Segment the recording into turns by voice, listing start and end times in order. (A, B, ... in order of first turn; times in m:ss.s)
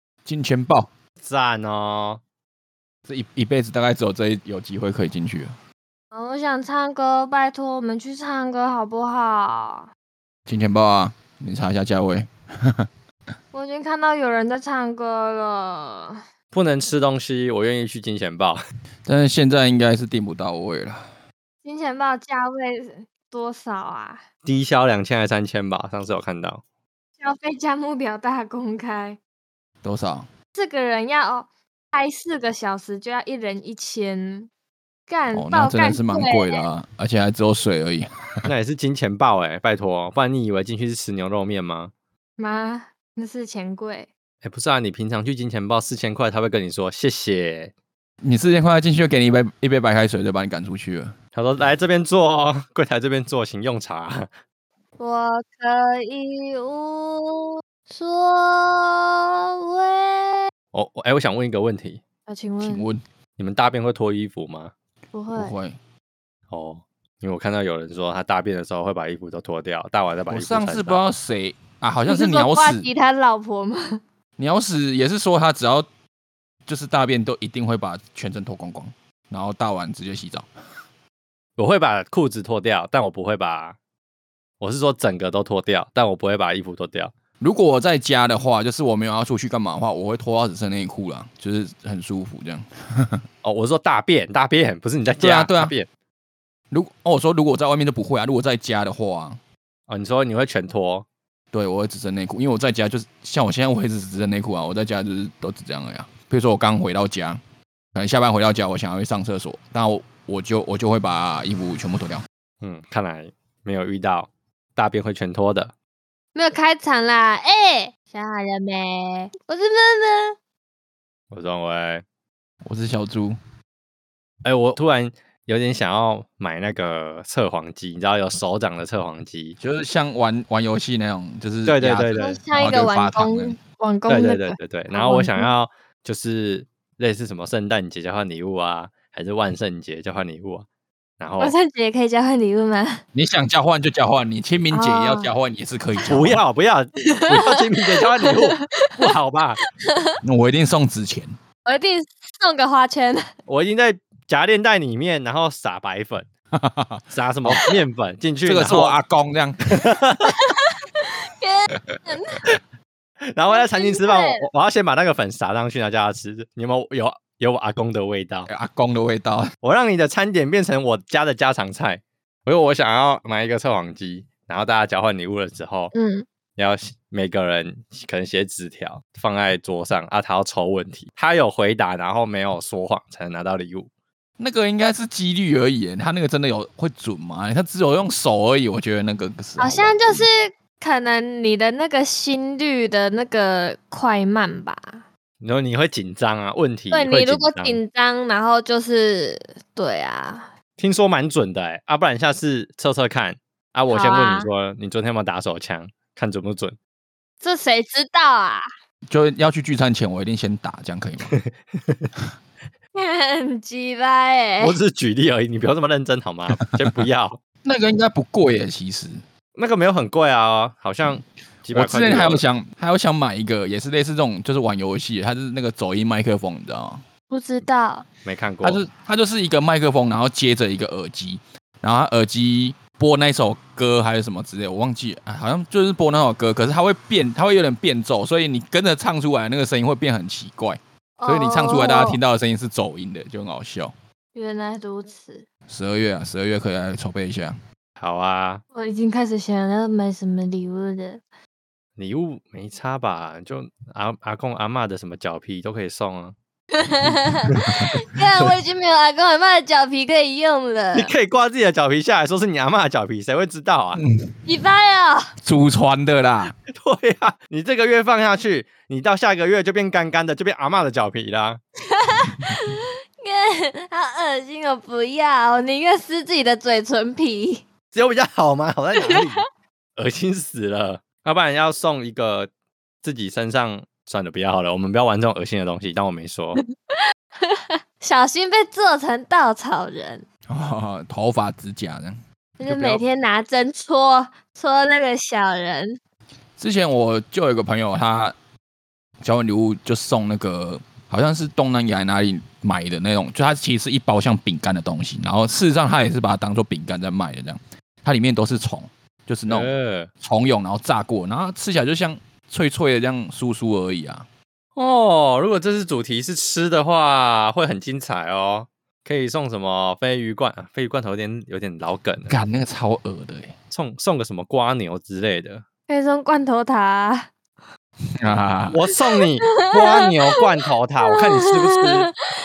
0:00.2-0:00.9 A
0:01.2-0:02.2 B
0:03.0-0:05.5 A
0:06.1-0:09.9 C
0:10.5-0:12.3 A
0:13.5-0:16.1 C
0:16.5-0:18.6 B
0:19.0-0:21.0 A
0:21.6-0:24.2 C
0:24.4-0:26.6 B
0:27.2-0:29.2 C
0:29.8-0:30.3 A
0:30.5-0:34.5 C
0:35.1-0:36.6 C
0:35.3-0:38.4 A
0:38.4-0:41.9 B
0:42.4-0:44.1 C
0:44.4-0:47.7 B
0:48.2-0:51.1 A
0:51.3-0:54.3 B
0:55.0-1:00.5 C
1:00.7-1:02.0 B
1:02.2-1:02.9 C
1:02.6-1:03.0 A
1:03.4-1:04.7 B
1:05.1-1:05.5 C
1:05.3-1:05.8 A
1:06.5-1:11.0 B
1:10.3-1:12.9 A
1:12.0-1:14.0 C
1:14.4-1:15.9 A
1:16.7-1:20.4 A
1:21.6-1:23.8 B
1:24.6-1:27.1 B
1:27.4-1:33.2 A
1:33.4-1:35.9 B
1:35.2-1:35.7 A
1:36.7-1:39.4 A
1:39.9-1:41.0 B
1:41.5-1:47.4 A
1:47.9-1:52.2 A
1:52.6-1:55.7 B
1:56.3-2:00.4 C
2:01.3-2:02.0 B
2:02.6-2:03.4 A
2:04.4-2:09.6 B
2:09.6-2:13.6 A
2:11.6-2:12.4 B
2:12.2-2:15.5 C
2:14.1-2:20.6 B
2:21.2-2:21.6 B
2:21.4-2:23.0 C
2:23.1-2:26.4 A
2:24.7-2:25.3 C
2:26.1-2:29.6 B
2:28.0-2:29.0 C
2:30.2-2:31.3 A
2:31.6-2:33.2 C
2:33.5-2:36.3 B
2:36.6-2:37.6 A
2:37.1-2:39.0 B
2:38.4-2:39.6 A
2:39.7-2:40.3 B
2:40.3-2:42.4 C
2:43.3-2:48.5 B
2:43.5-2:44.5 C
2:48.5-2:49.5 A
2:49.6-2:55.9 B
2:55.9-2:56.2 C
2:56.6-3:03.9 B
3:04.4-3:10.3 A
3:09.6-3:15.0 C
3:15.4-3:17.8 B
3:16.9-3:20.5 C
3:20.8-3:26.8 B
3:23.9-3:24.5 C
3:27.4-3:28.6 C
3:29.1-3:31.3 A
3:31.3-3:32.1 B
3:32.9-3:34.8 C
3:34.6-3:37.4 B
3:37.6-3:39.2 A
3:39.6-3:42.4 B
3:41.7-3:47.0 A
3:47.3-3:48.0 C
3:48.2-3:48.8 B
3:48.6-4:03.9 A
4:01.2-4:02.2 C
4:04.3-4:05.4 C
4:05.7-4:07.6 A
4:08.0-4:08.6 B
4:08.7-4:11.2 C
4:12.0-4:16.3 B
4:16.8-4:21.1 C
4:20.9-4:24.0 B
4:24.4-4:25.2 C
4:25.4-4:26.5 A
4:26.7-4:31.6 B
4:32.0-4:37.6 C
4:37.9-4:42.5 B
4:39.1-4:39.4 C
4:43.0-4:46.6 B
4:46.6-4:50.2 C
4:50.5-4:53.0 A
4:52.6-4:56.0 C
4:56.6-4:58.3 A
4:59.2-5:09.7 A
5:09.5-5:10.1 B
5:10.2-5:14.3 A
5:14.8-5:22.3 B
5:22.3-5:23.6 A
5:23.7-5:25.6 B
5:25.9-5:27.3 C
5:28.2-5:28.8 A
5:28.7-5:32.1 B
5:29.5-5:30.1 C
5:31.2-5:32.1 C